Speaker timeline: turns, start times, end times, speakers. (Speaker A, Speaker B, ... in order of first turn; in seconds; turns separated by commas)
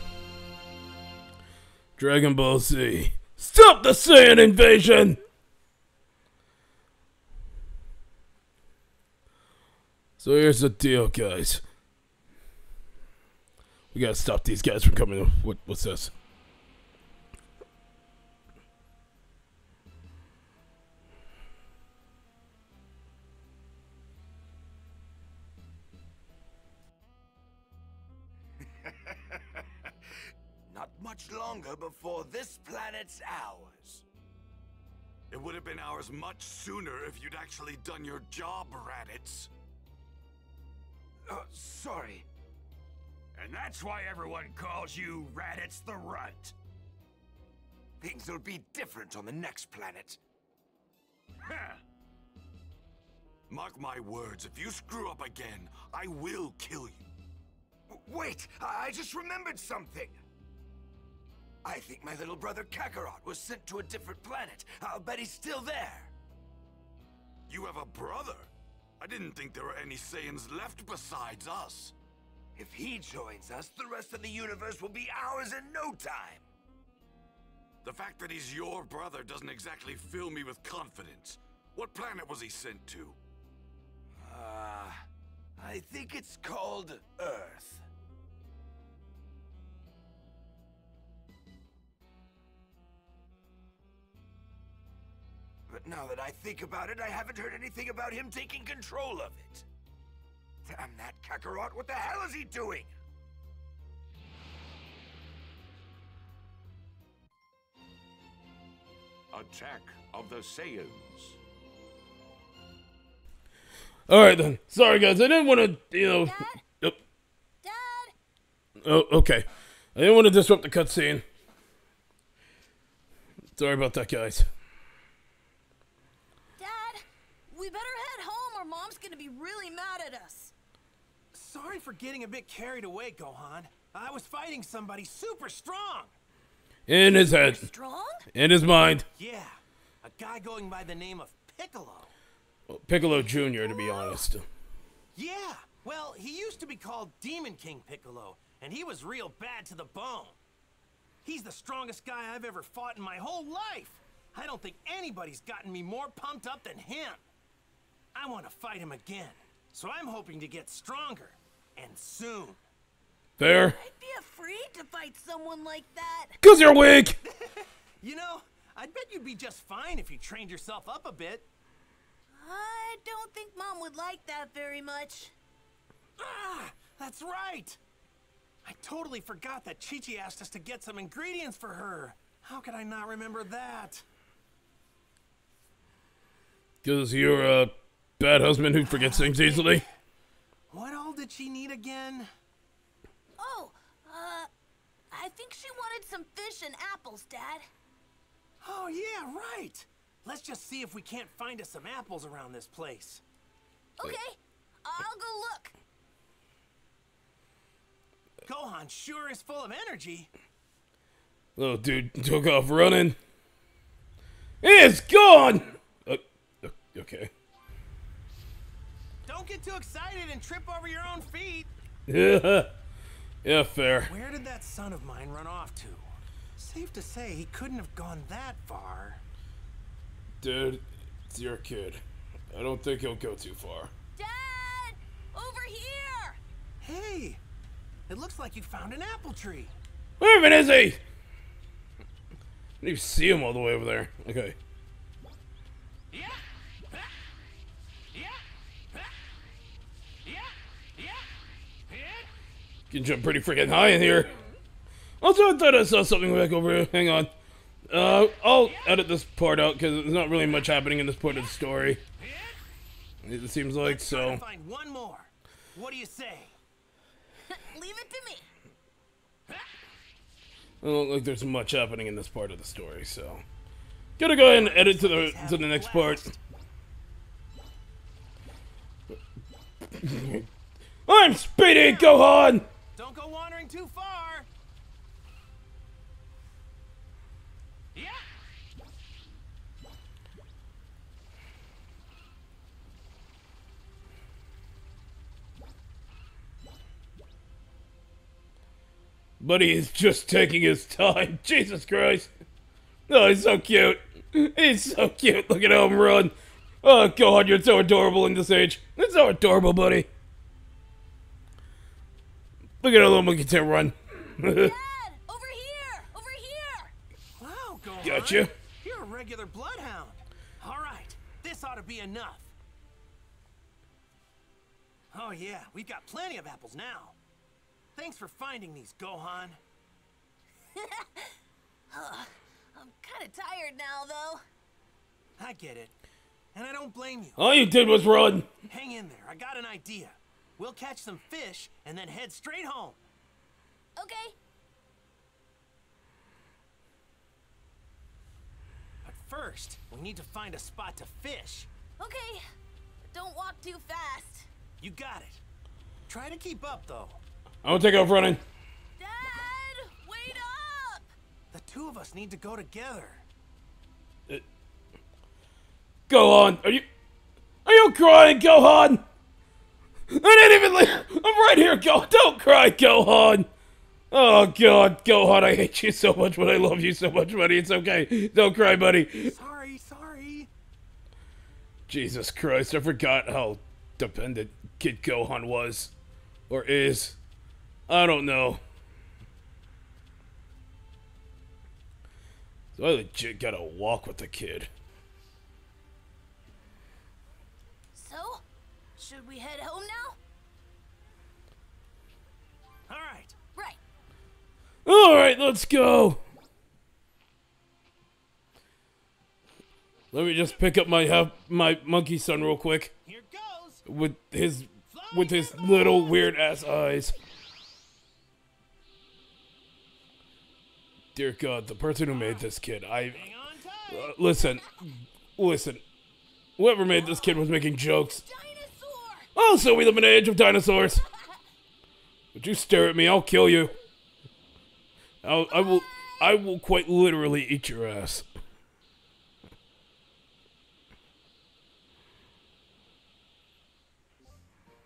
Speaker A: 2.0-5.2, Speaker A: 10.2-11.6, Speaker A: 13.9-16.1, Speaker B: 28.8-29.6, Speaker B: 30.7-34.0, Speaker C: 35.3-39.5, Speaker B: 41.3-42.2, Speaker C: 43.3-46.5, Speaker B: 44.0-44.3, Speaker B: 44.9-46.5, Speaker B: 48.0-50.2, Speaker C: 53.5-57.1, Speaker B: 57.9-60.2, Speaker B: 61.6-66.1, Speaker C: 67.5-71.9, Speaker B: 72.6-76.5, Speaker C: 77.8-83.2, Speaker B: 84.2-85.0, Speaker B: 85.6-87.8, Speaker B: 95.7-99.7, Speaker B: 100.6-102.9, Speaker D: 109.3-111.4, Speaker A: 114.1-117.0, Speaker E: 116.2-116.6, Speaker E: 117.6-118.1, Speaker A: 118.8-121.2, Speaker A: 123.6-124.5, Speaker E: 126.6-130.5, Speaker F: 131.3-136.1, Speaker A: 136.9-137.7, Speaker E: 137.1-138.2, Speaker A: 138.3-139.1, Speaker F: 139.2-142.1, Speaker A: 142.7-144.4, Speaker E: 143.2-144.2, Speaker F: 145.2-150.4, Speaker F: 151.2-157.2, Speaker F: 158.1-162.6, Speaker A: 163.4-163.8, Speaker E: 163.5-166.4, Speaker A: 166.4-167.2, Speaker F: 167.2-171.5, Speaker E: 172.4-175.3, Speaker F: 176.2-177.8, Speaker F: 178.6-184.0, Speaker A: 186.8-189.8, Speaker F: 188.8-189.9, Speaker F: 190.7-192.3, Speaker E: 193.4-194.5, Speaker E: 195.1-197.7, Speaker F: 198.6-203.2, Speaker E: 204.0-205.8, Speaker F: 208.4-210.3, Speaker A: 211.6-213.2, Speaker A: 214.6-217.3, Speaker F: 219.2-221.7, Speaker A: 222.1-222.7, Speaker A: 223.4-224.1, Speaker F: 224.1-229.2, Speaker A: 230.4-233.9, Speaker E: 234.2-236.4, Speaker F: 236.8-237.4, Speaker F: 238.1-239.8, Speaker A: 240.2-241.0, Speaker A: 242.8-244.6, Speaker F: 246.1-247.1, Speaker F: 248.1-248.4, Speaker F: 250.2-251.3, Speaker F: 251.9-252.3, Speaker A: 252.9-254.3, Speaker A: 255.2-257.3, Speaker A: 257.9-262.0, Speaker F: 258.6-258.9, Speaker F: 262.2-262.6, Speaker A: 263.2-264.4, Speaker F: 263.8-266.6, Speaker E: 267.5-268.5, Speaker A: 270.8-273.4, Speaker A: 274.2-276.3, Speaker F: 274.4-276.4, Speaker A: 280.0-280.5, Speaker A: 281.1-282.7, Speaker F: 281.8-282.2, Speaker F: 282.9-284.5, Speaker F: 287.9-288.2, Speaker A: 299.4-302.3, Speaker A: 303.1-310.1, Speaker A: 312.8-314.7, Speaker E: 314.4-316.9, Speaker F: 317.4-322.5, Speaker A: 318.0-318.5, Speaker F: 325.1-327.1, Speaker F: 328.0-329.6, Speaker E: 330.8-331.2, Speaker E: 331.9-334.4, Speaker F: 335.4-335.9, Speaker F: 336.5-337.4, Speaker A: 337.4-338.5, Speaker F: 338.7-343.0, Speaker E: 344.0-344.4, Speaker F: 349.0-351.7, Speaker E: 352.0-352.4, Speaker E: 353.1-354.5, Speaker F: 354.8-355.4, Speaker F: 356.1-357.2, Speaker A: 357.6-358.4, Speaker E: 359.0-361.1, Speaker F: 361.5-363.2, Speaker A: 366.1-366.9, Speaker A: 367.6-369.0, Speaker A: 370.1-373.5, Speaker A: 374.1-379.3, Speaker F: 379.2-380.5, Speaker A: 381.9-385.9, Speaker A: 386.5-387.2, Speaker A: 387.9-388.6, Speaker A: 392.8-394.7, Speaker E: 397.9-398.4, Speaker E: 399.0-400.2, Speaker F: 402.9-403.4, Speaker E: 403.5-403.8, Speaker A: 404.9-406.2, Speaker A: 410.1-412.9, Speaker F: 413.1-413.9, Speaker A: 413.9-417.1, Speaker F: 414.9-416.4, Speaker A: 421.1-423.3, Speaker F: 423.1-424.1, Speaker A: 423.9-424.7, Speaker A: 425.4-425.8, Speaker A: 426.6-428.2, Speaker E: 426.9-429.3, Speaker A: 429.4-431.0, Speaker A: 432.3-433.7, Speaker A: 435.2-438.2, Speaker E: 435.5-436.4